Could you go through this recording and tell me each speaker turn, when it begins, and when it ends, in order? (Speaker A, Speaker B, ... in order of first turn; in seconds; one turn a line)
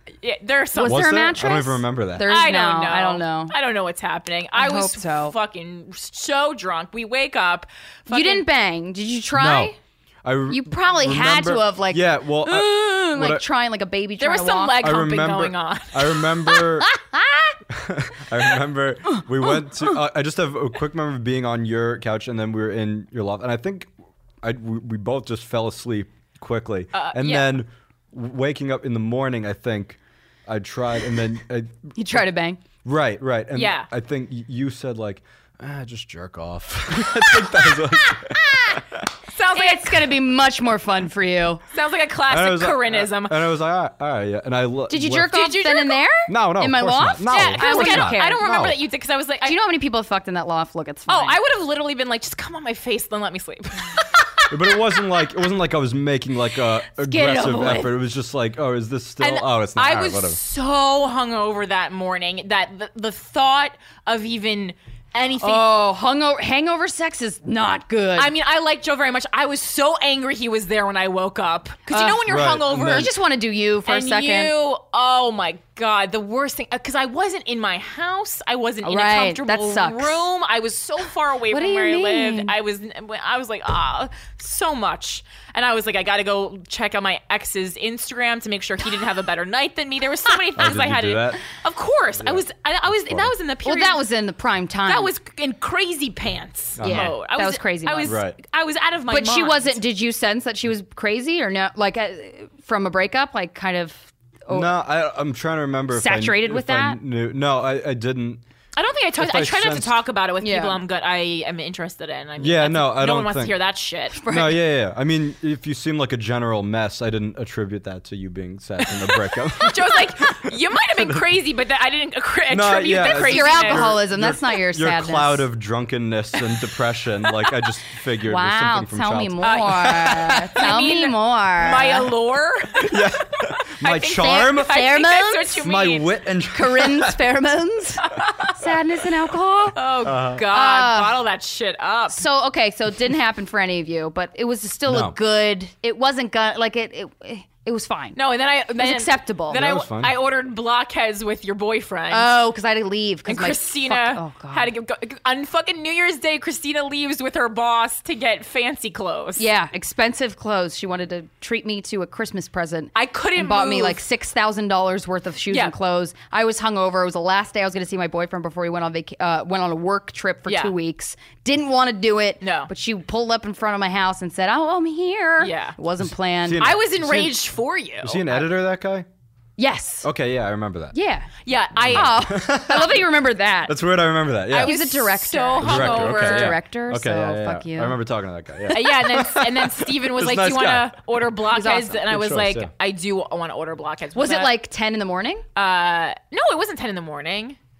Speaker A: 0.2-1.5
Speaker B: 0.7-3.5
Speaker C: 0.8-2.2
Speaker A: 2.2-8.4
Speaker B: 4.5-5.3
Speaker B: 8.1-9.8
Speaker C: 9.3-9.7
Speaker C: 10.2-13.4
Speaker B: 10.5-14.9
Speaker A: 14.2-16.6
Speaker C: 14.8-16.9
Speaker B: 16.6-17.6
Speaker C: 17.7-23.9
Speaker B: 19.1-19.9
Speaker C: 24.4-31.9
Speaker A: 26.9-27.6
Speaker B: 31.9-32.6
Speaker C: 32.8-39.0
Speaker A: 33.5-33.9
Speaker B: 37.4-38.8
Speaker A: 39.3-40.1
Speaker B: 39.5-41.6
Speaker A: 41.7-43.4
Speaker C: 42.3-45.4
Speaker B: 44.9-48.5
Speaker A: 45.2-46.1
Speaker C: 46.3-48.8
Speaker A: 47.3-49.5
Speaker B: 49.4-51.4
Speaker A: 51.1-55.0
Speaker C: 54.5-60.4
Speaker A: 57.1-57.9
Speaker B: 57.1-57.9
Speaker A: 59.2-65.7
Speaker B: 65.4-68.3
Speaker A: 68.2-73.1
Speaker B: 71.9-74.5
Speaker C: 72.2-73.1
Speaker A: 73.8-94.0
Speaker B: 78.8-80.3
Speaker B: 81.5-82.5
Speaker C: 90.5-91.4
Speaker C: 92.2-92.4
Speaker C: 93.0-93.3
Speaker B: 93.6-95.1
Speaker A: 94.9-99.8
Speaker C: 96.8-97.2
Speaker B: 96.8-98.2
Speaker C: 98.0-98.3
Speaker B: 99.1-104.7
Speaker C: 104.5-108.4
Speaker B: 105.9-107.0
Speaker A: 108.7-114.2
Speaker C: 109.2-109.9
Speaker B: 110.4-110.8
Speaker C: 112.4-113.5
Speaker B: 114.2-114.7
Speaker C: 114.3-121.2
Speaker A: 119.6-124.0
Speaker C: 122.5-130.6
Speaker B: 123.0-125.5
Speaker B: 128.2-132.1
Speaker A: 129.4-136.2
Speaker C: 132.8-134.8
Speaker B: 134.1-135.7
Speaker C: 135.6-137.2
Speaker B: 136.5-139.8
Speaker A: 138.1-138.5
Speaker A: 139.7-142.3
Speaker C: 140.0-140.4
Speaker B: 140.4-141.2
Speaker B: 142.1-148.2
Speaker C: 144.9-145.1
Speaker A: 148.2-152.3
Speaker B: 148.8-149.6
Speaker C: 149.5-150.1
Speaker B: 152.1-154.7
Speaker A: 153.2-159.5
Speaker B: 159.4-176.7
Speaker A: 162.9-164.0
Speaker A: 170.5-170.7
Speaker A: 172.4-172.7
Speaker A: 175.4-175.8
Speaker C: 176.0-177.4
Speaker A: 176.6-178.4
Speaker C: 178.0-179.1
Speaker B: 179.6-180.1
Speaker C: 180.0-180.9
Speaker B: 180.9-181.3
Speaker A: 181.4-182.3
Speaker C: 181.8-183.1
Speaker B: 181.9-183.8
Speaker C: 183.7-185.0
Speaker A: 184.5-186.6
Speaker B: 184.5-188.0
Speaker C: 185.6-191.2
Speaker A: 188.7-194.5
Speaker B: 191.5-192.0
Speaker C: 192.1-192.7
Speaker B: 194.1-195.4
Speaker A: 195.6-197.6